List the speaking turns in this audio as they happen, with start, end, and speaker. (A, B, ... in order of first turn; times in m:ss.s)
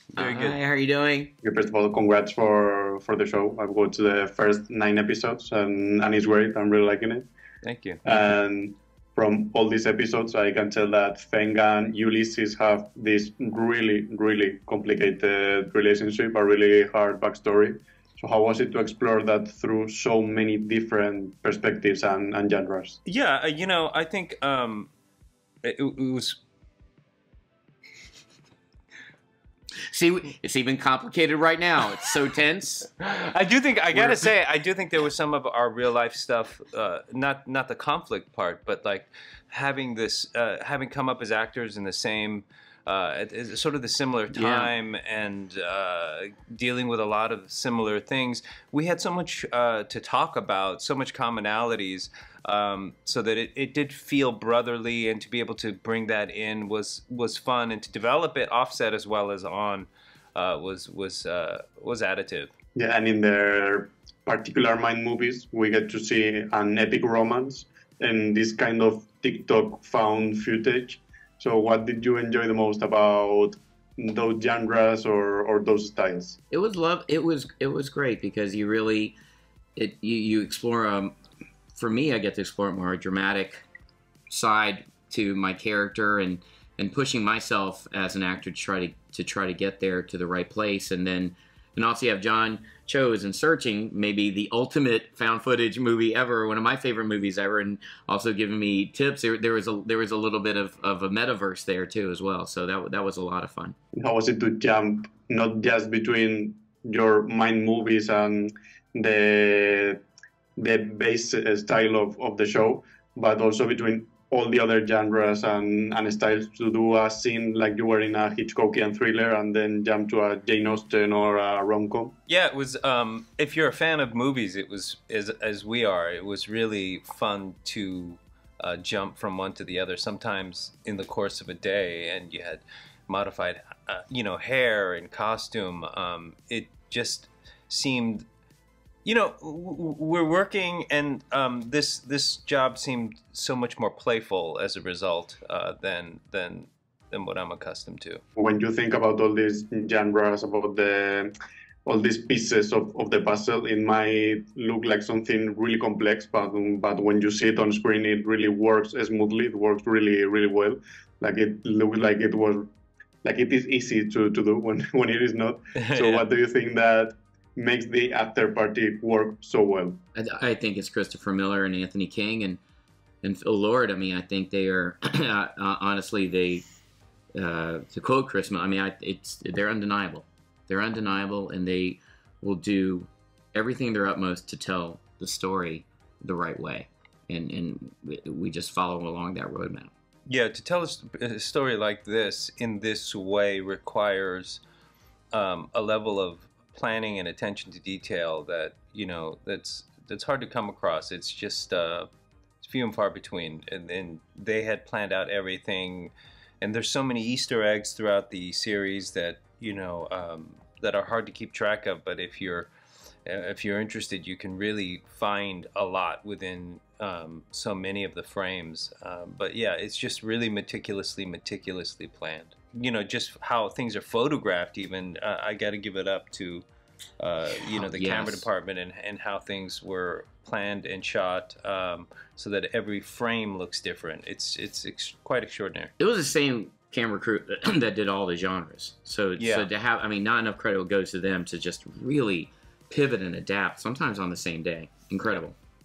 0:00.1-0:00.6 A
0:00.2-0:01.3 B
0:01.4-0:07.3 C
0:07.6-0:08.0 A
0:08.0-0:23.0 C
0:23.1-0:24.9 A
0:25.6-0:26.4 A
0:29.9-0:32.9 B
0:33.0-1:02.5 A
0:33.9-0:34.2 B
0:44.3-0:44.7 B
1:02.8-1:16.4 C
1:16.5-1:19.2 B
1:19.8-1:21.2 B
1:21.8-1:23.6 B
1:24.3-1:43.8 B
1:43.9-1:50.0 C
1:50.6-2:02.2 C
2:02.3-2:18.3 A
2:19.0-2:28.2 A
2:28.4-2:31.3 C
2:31.8-2:42.7 C
2:43.2-2:50.0 C
2:45.8-2:46.3 A
2:50.2-2:52.6 B
2:53.2-2:56.6 B
2:57.3-3:09.9 B
3:10.3-3:14.6 A
3:15.3-3:22.1 A
3:22.6-3:32.7 A
3:33.3-3:46.7 A
3:47.2-3:55.9 A
3:47.6-3:48.5 B
3:56.0-4:05.6 B
3:59.4-3:59.7 A